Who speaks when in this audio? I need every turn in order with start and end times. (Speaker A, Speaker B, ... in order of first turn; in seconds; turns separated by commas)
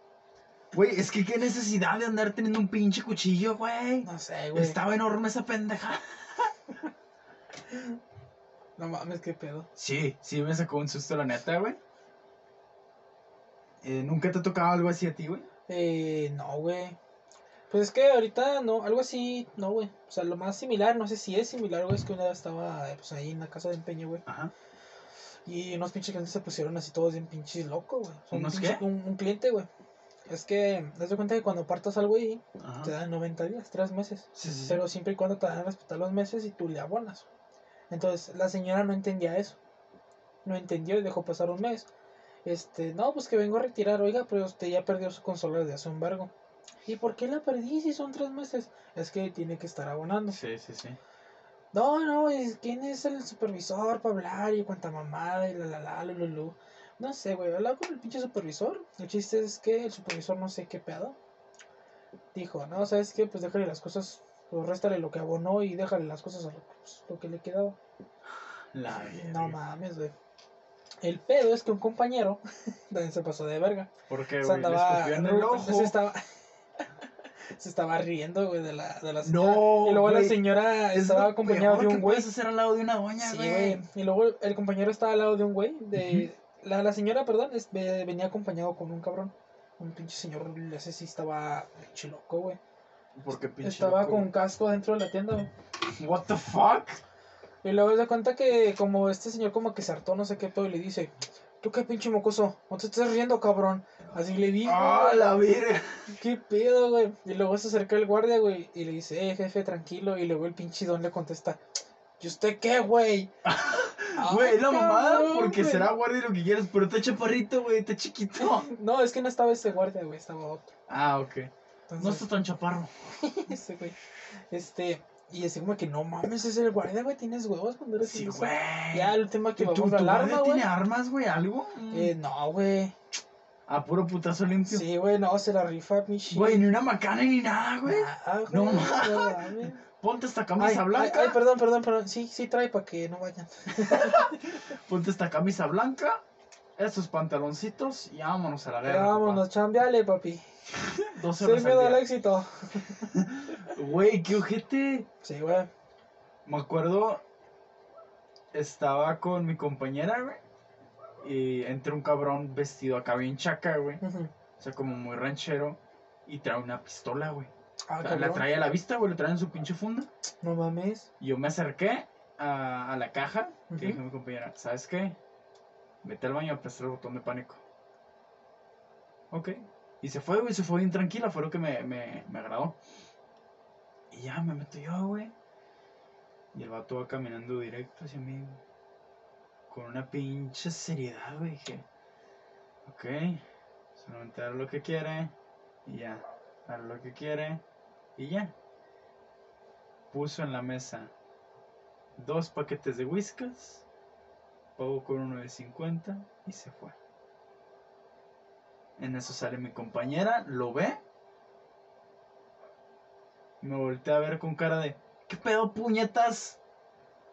Speaker A: 0.7-6.5, Speaker B: 4.0-4.8, Speaker B: 7.7-8.0, Speaker B: 8.8-9.7, Speaker A: 9.8-11.8, Speaker A: 13.8-15.5, Speaker B: 15.7-17.0, Speaker B: 17.7-24.2, Speaker A: 24.3-24.5, Speaker B: 25.4-29.7, Speaker A: 28.3-28.8, Speaker B: 30.3-37.3, Speaker A: 32.6-32.9, Speaker A: 34.4-34.8, Speaker B: 37.9-39.6, Speaker B: 40.4-41.9, Speaker B: 42.5-46.3, Speaker B: 46.9-50.4, Speaker A: 50.3-51.0, Speaker B: 51.7-61.2, Speaker B: 62.3-67.8, Speaker A: 68.7-69.6, Speaker B: 69.0-70.1, Speaker B: 71.0-76.3, Speaker A: 74.1-76.0, Speaker B: 77.5-82.3, Speaker A: 79.2-83.8, Speaker B: 83.2-92.6, Speaker A: 86.0-86.3, Speaker A: 93.2-94.3, Speaker B: 93.6-95.5, Speaker A: 95.9-97.0, Speaker B: 97.6-105.4, Speaker A: 104.6-106.1, Speaker B: 106.1-111.6, Speaker B: 112.2-113.3, Speaker A: 113.4-118.7, Speaker B: 114.2-115.9, Speaker B: 118.4-120.7, Speaker A: 120.9-122.9, Speaker B: 121.9-122.3, Speaker B: 123.2-124.0, Speaker B: 124.5-130.7, Speaker A: 128.0-132.1, Speaker B: 131.9-132.9, Speaker A: 133.7-134.8, Speaker B: 134.7-136.6, Speaker A: 136.3-141.4, Speaker B: 137.8-139.8, Speaker B: 140.6-144.4, Speaker A: 143.8-146.2, Speaker A: 146.8-149.4, Speaker B: 148.8-150.4, Speaker A: 150.9-152.1, Speaker B: 151.4-153.1, Speaker A: 153.1-155.1, Speaker B: 155.2-155.7, Speaker A: 156.5-157.2, Speaker A: 158.5-160.4, Speaker A: 161.2-164.0, Speaker B: 164.0-164.3, Speaker A: 164.6-170.1, Speaker B: 167.9-168.5, Speaker B: 170.4-171.1, Speaker A: 171.2-175.2, Speaker B: 173.7-174.0, Speaker A: 176.0-177.6, Speaker A: 179.3-182.8, Speaker A: 184.1-185.3, Speaker A: 186.5-188.6, Speaker A: 189.7-191.8, Speaker A: 192.8-193.4, Speaker A: 194.0-195.3, Speaker A: 195.9-197.6, Speaker A: 198.2-198.5, Speaker A: 200.1-201.1, Speaker A: 202.2-203.8, Speaker A: 204.8-206.9, Speaker A: 209.0-211.0, Speaker A: 213.6-216.6